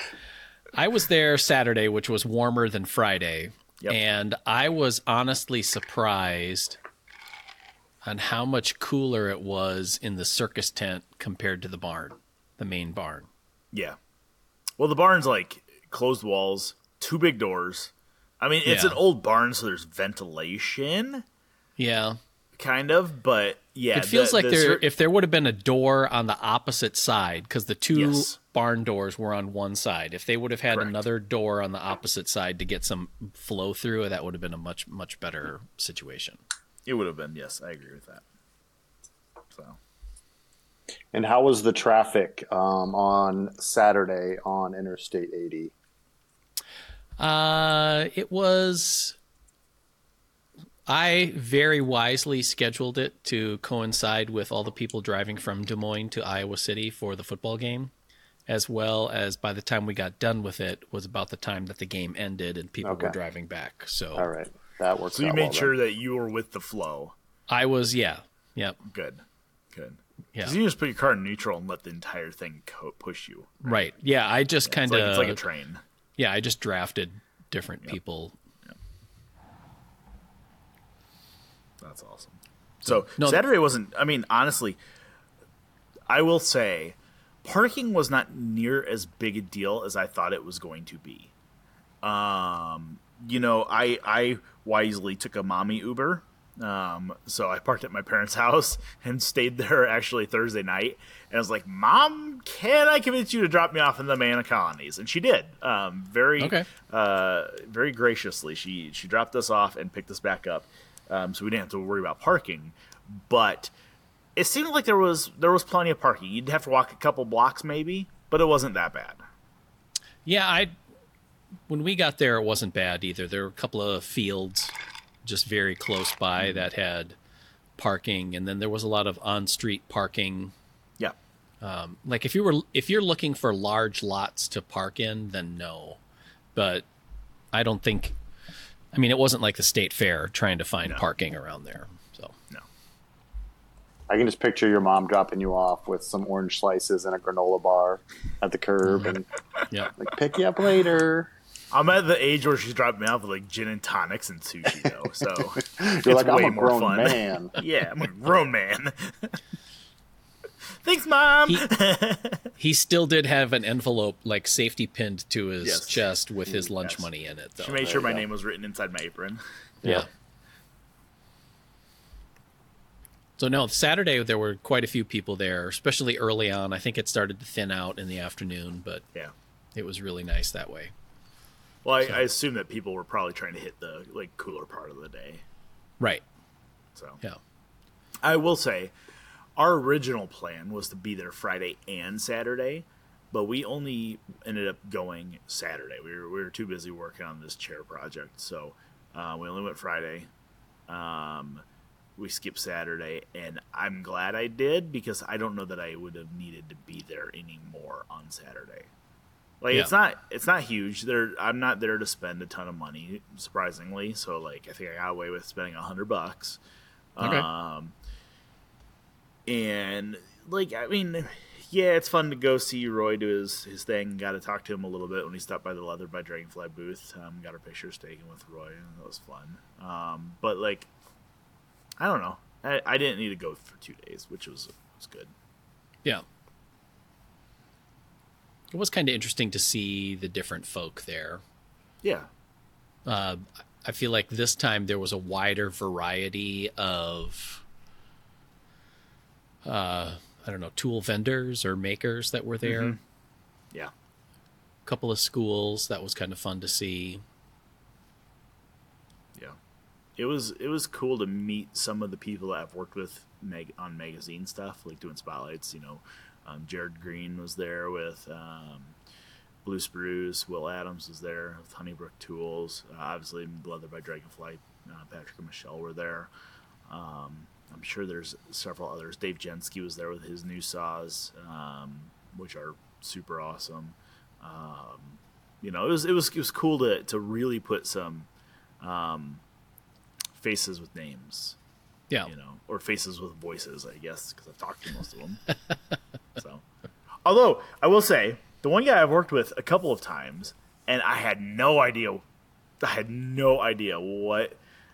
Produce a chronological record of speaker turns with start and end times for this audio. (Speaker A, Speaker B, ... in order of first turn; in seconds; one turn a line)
Speaker A: 0.7-6.8
Speaker A: 8.0-13.3
Speaker B: 13.7-14.0
Speaker B: 14.8-21.2
Speaker A: 18.6-19.0
Speaker A: 21.8-22.2
Speaker B: 22.6-24.8
Speaker A: 23.9-36.4
Speaker B: 27.9-28.4
Speaker B: 36.9-38.2
Speaker B: 39.5-39.8
Speaker C: 41.1-45.7
Speaker A: 47.2-49.2
Speaker A: 50.9-57.9
Speaker A: 58.5-64.3
Speaker C: 62.8-63.1
Speaker C: 64.2-65.7
Speaker B: 65.1-67.2
Speaker A: 67.5-68.8
Speaker B: 68.9-73.8
Speaker A: 73.6-75.4
Speaker B: 74.7-75.8
Speaker A: 76.2-78.4
Speaker B: 81.8-84.8
Speaker A: 82.8-83.4
Speaker B: 86.1-91.3
Speaker B: 92.0-113.7
Speaker A: 106.4-106.7
Speaker B: 114.4-119.2
Speaker A: 120.2-120.7
Speaker A: 121.7-127.2
Speaker B: 126.4-126.7
Speaker A: 127.8-130.5
Speaker A: 131.6-136.0
Speaker A: 136.6-136.9
Speaker A: 137.5-138.2
Speaker A: 138.9-142.3
Speaker C: 144.1-149.3
Speaker A: 148.9-149.2
Speaker C: 149.9-151.3
Speaker B: 151.7-159.4
Speaker C: 155.7-157.6
Speaker B: 160.8-162.5
Speaker A: 162.6-167.9
Speaker B: 165.6-166.0
Speaker B: 167.6-169.4
Speaker C: 167.9-168.2
Speaker A: 169.8-170.1
Speaker A: 173.4-179.0
Speaker A: 179.8-180.9
Speaker B: 181.8-185.4
Speaker B: 186.9-187.2
Speaker B: 188.2-188.9
Speaker B: 189.6-200.3
Speaker B: 200.9-201.6
Speaker B: 202.2-208.9
Speaker B: 209.6-216.6
Speaker B: 217.2-217.9
Speaker A: 217.2-217.5
Speaker B: 219.5-230.9
Speaker B: 232.0-235.3
Speaker A: 238.7-241.4
Speaker B: 242.0-242.3
Speaker A: 243.1-247.7
Speaker A: 249.6-253.0
Speaker B: 252.6-253.0
Speaker A: 254.9-257.2
Speaker B: 260.2-269.0
Speaker B: 269.6-276.3
Speaker B: 276.9-288.3
Speaker B: 288.8-289.4
Speaker B: 290.4-291.6
Speaker B: 292.3-295.4
Speaker B: 296.4-296.6
Speaker B: 297.2-302.2
Speaker B: 302.8-304.6